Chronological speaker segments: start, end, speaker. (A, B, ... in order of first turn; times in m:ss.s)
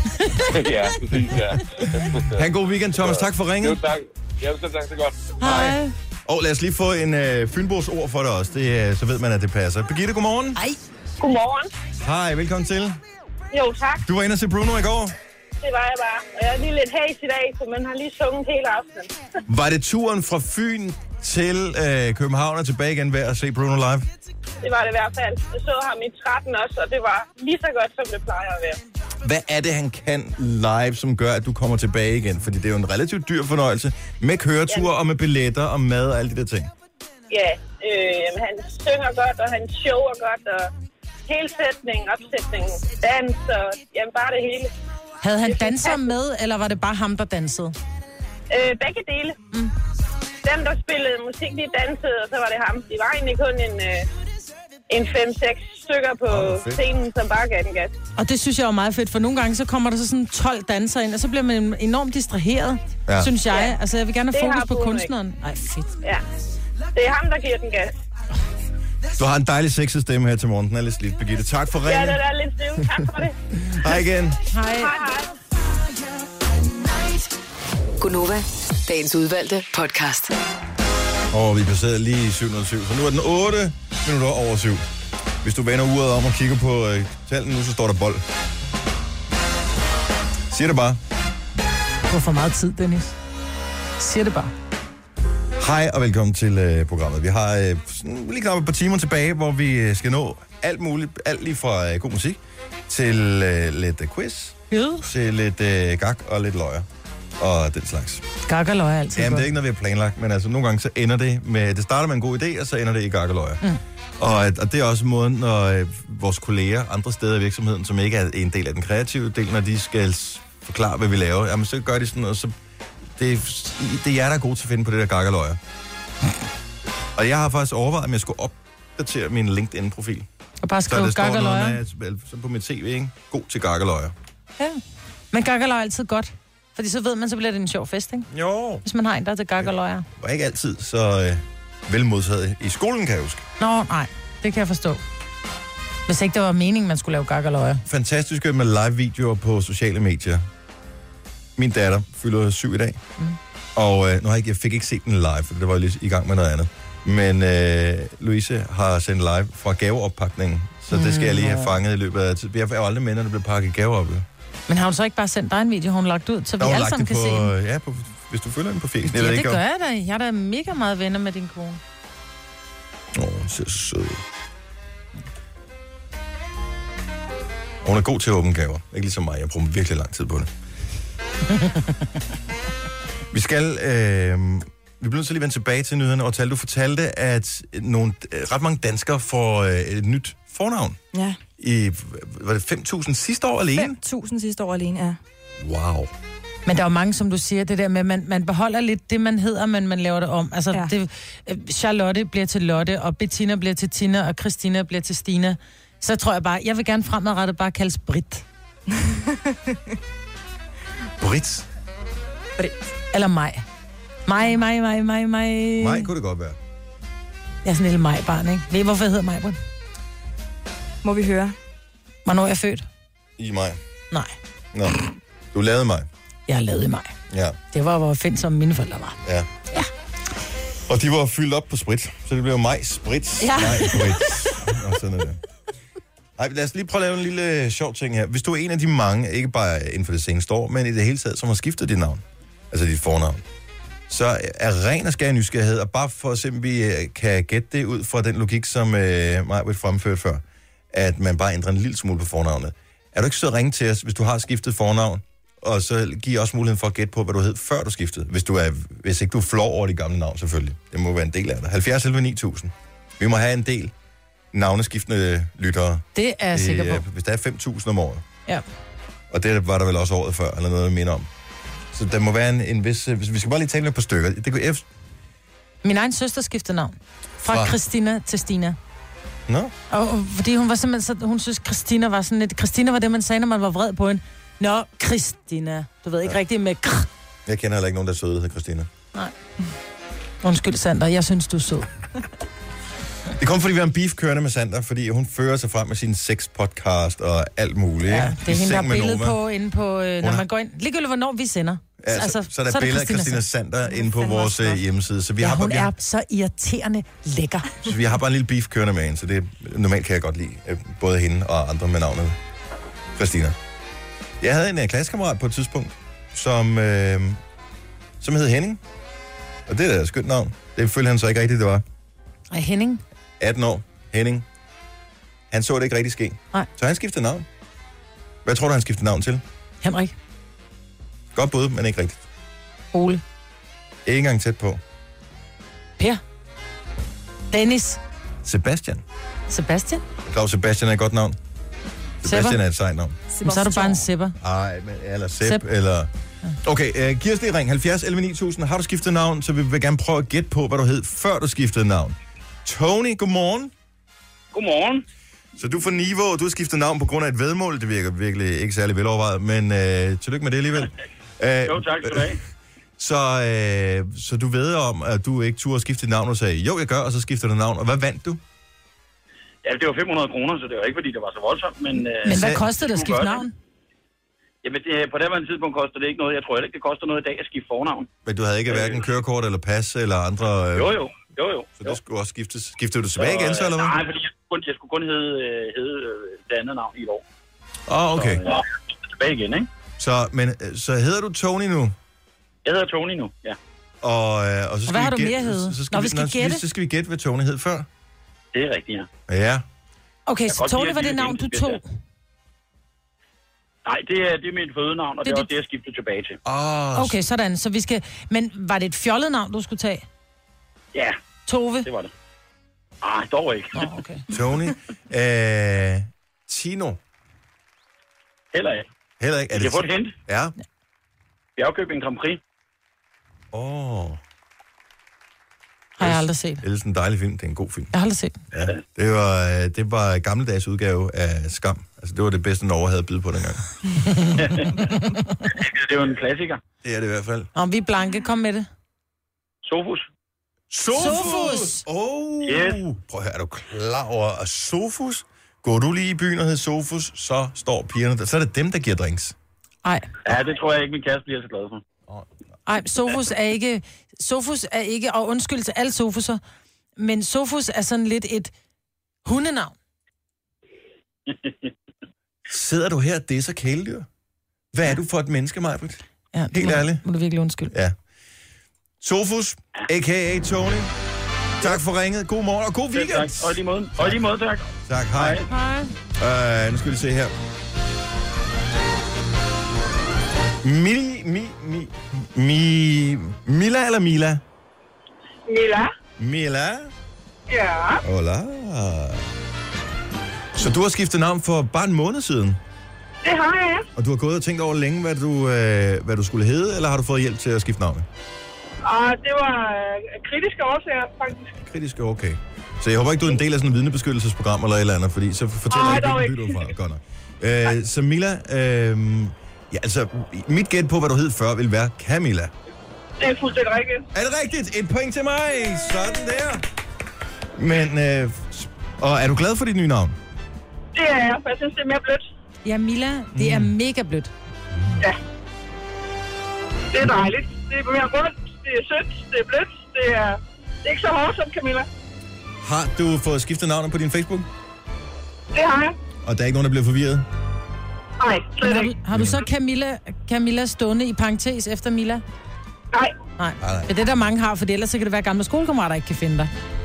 0:00.2-0:00.5 A
0:00.5-0:02.4 B
0:01.9-0:03.8 C
0:03.0-0:05.3 B
0:05.4-0:05.9 A
0:05.4-0:10.6 C
0:11.2-0:11.7 D
0:12.0-0:13.0 C
0:13.5-0:14.0 D
0:14.0-0:15.2 C
0:15.6-0:19.1 D
0:19.5-0:24.1 C
0:24.6-0:28.8 D
0:29.2-0:36.7 C
0:37.3-0:40.7 D
0:41.3-0:44.7 D
0:45.2-0:47.7 A
0:45.4-0:46.1 D
0:48.5-0:49.4 D
0:50.4-0:54.0 D
0:54.9-0:57.9 D
0:56.3-0:56.8 C
0:58.2-1:06.0 A
1:03.1-1:03.3 C
1:03.5-1:03.8 D
1:04.3-1:05.1 D
1:06.9-1:07.9 D
1:09.2-1:12.2 C
1:11.8-1:13.4 D
1:13.6-1:14.4 C
1:14.5-1:15.0 A
1:14.8-1:15.3 D
1:18.0-1:20.3 E
1:21.3-1:24.8 C
1:25.4-1:28.2 C
1:30.5-1:31.0 C
1:32.1-1:33.1 A
1:34.0-1:34.5 A
1:35.6-1:46.8 C
1:44.7-1:45.0 A
1:47.4-1:48.2 C
1:48.4-1:49.5 A
1:49.1-1:53.6 C
1:54.2-2:02.5 C
2:03.2-2:05.6 C
2:07.1-2:10.3 C
2:10.6-2:11.8 A
2:10.9-2:14.1 C
2:15.3-2:18.3 A
2:18.3-2:18.8 C
2:18.8-2:20.0 A
2:19.6-2:23.4 C
2:23.6-2:25.0 A
2:26.1-2:27.8 A
2:27.8-2:30.4 C
2:31.6-2:33.0 C
2:33.8-2:44.2 C
2:40.9-2:41.8 A
2:44.7-2:47.5 A
2:46.6-2:49.6 C
2:49.1-2:51.8 A
2:53.1-2:54.2 C
2:57.8-3:00.5 C
3:03.3-3:11.0 C
3:11.1-3:11.4 F
3:11.6-3:14.0 C
3:13.7-3:15.2 F
3:15.6-3:16.1 C
3:16.6-3:28.4 A
3:31.2-3:31.6 C
3:33.1-3:33.6 A
3:34.2-3:36.1 A
3:35.8-3:36.6 C
3:37.6-3:39.6 A
3:41.0-3:41.5 F
3:42.2-3:42.8 A
3:43.4-3:43.8 C
3:44.7-3:45.0 C
3:45.5-3:46.1 C
3:46.5-3:47.1 A
3:47.3-3:47.6 C
3:47.7-3:49.2 A
3:50.9-3:55.4 C
3:53.4-3:54.5 A
3:56.4-4:03.4 C
4:04.1-4:23.9 C
4:24.5-4:28.2 C
4:26.1-4:27.0 A
4:29.3-4:31.3 C
4:31.9-4:34.8 C
4:35.8-4:38.8 A
4:37.5-4:37.8 C
4:39.5-4:39.7 C
4:39.9-4:47.1 A
4:47.4-4:48.9 C
4:50.4-4:51.9 A
4:53.4-4:59.4 C
4:58.1-5:04.8 A
5:00.2-5:00.4 C
5:02.0-5:05.9 C
5:05.4-5:07.8 A
5:07.8-5:12.4 C
5:13.1-5:13.6 C
5:14.4-5:17.4 C
5:18.2-5:18.8 C
5:19.7-5:21.8 C
5:22.5-5:23.0 A
5:23.4-5:24.4 C
5:25.5-5:27.4 C
5:28.4-5:29.4 C
5:29.8-5:30.1 A
5:31.3-5:32.2 C
5:32.9-5:33.2 A
5:34.0-5:34.8 C
5:37.5-5:38.0 A
5:38.4-5:39.0 C
5:39.5-5:40.0 A
5:40.2-5:41.4 C
5:42.2-5:43.2 C
5:42.2-5:42.6 A
5:43.3-5:44.0 F
5:43.4-5:44.4 A
5:44.4-5:46.1 C
5:46.6-5:53.7 C
5:54.5-5:55.0 G
5:55.6-6:02.4 C
6:01.7-6:02.4 G
6:03.0-6:08.4 C
6:09.6-6:13.4 G
6:12.2-6:13.5 A
6:12.3-6:12.7 C
6:14.6-6:18.1 G
6:18.2-6:20.9 C
6:18.7-6:19.0 G
6:20.7-6:22.0 G
6:21.8-6:24.0 C
6:23.2-6:27.2 G
6:27.9-6:28.4 C
6:28.1-6:29.7 G
6:30.0-6:31.9 C
6:32.6-6:33.6 G
6:34.0-6:37.9 C
6:34.9-6:36.6 A
6:38.5-6:39.1 G
6:39.3-6:39.6 C
6:40.3-6:41.8 A
6:40.5-6:41.8 G
6:43.8-6:46.4 G
6:46.4-6:47.2 C
6:46.9-6:50.0 A
6:51.4-6:51.9 A
6:51.8-6:52.1 G
6:53.0-6:53.8 G
6:53.7-6:54.2 A
6:54.3-6:57.0 C
6:58.5-6:58.9 G
6:59.2-7:00.5 C
6:59.5-7:00.1 G
7:01.6-7:02.4 G
7:03.5-7:04.2 C
7:06.0-7:06.6 A
7:06.0-7:07.9 C
7:07.9-7:08.4 A
7:08.5-7:13.6 C
7:14.0-7:14.3 A
7:14.4-7:14.9 G
7:15.5-7:16.6 G
7:16.8-7:17.5 C
7:17.5-7:18.7 A
7:19.6-7:20.0 G
7:20.7-7:29.3 C
7:20.9-7:21.8 A
7:22.4-7:22.8 G
7:29.8-7:30.1 A
7:30.2-7:31.8 G
7:32.7-7:36.4 A
7:37.0-7:38.5 A
7:39.2-7:39.7 A
7:41.3-7:41.6 G
7:42.5-7:44.1 C
7:44.7-7:47.0 C
7:46.3-7:47.7 A
7:47.7-7:48.0 C
7:49.0-7:50.9 C
7:51.6-7:54.2 C
7:52.9-7:55.4 G
7:54.9-7:55.4 C
7:55.4-7:55.9 A
7:56.2-7:57.3 C
8:00.6-8:04.4 C
8:06.2-8:06.9 C
8:08.0-8:09.3 C
8:10.5-8:12.6 C
8:13.9-8:18.1 C
8:21.5-8:32.5 C
8:34.1-8:36.6 C
8:37.6-8:40.2 C
8:42.6-8:44.3 A
8:43.3-8:43.7 C
8:52.6-8:54.5 C
8:56.2-8:57.2 C
8:58.6-9:02.2 A
8:59.1-8:59.4 C
9:03.4-9:06.5 A
9:03.6-9:03.9 C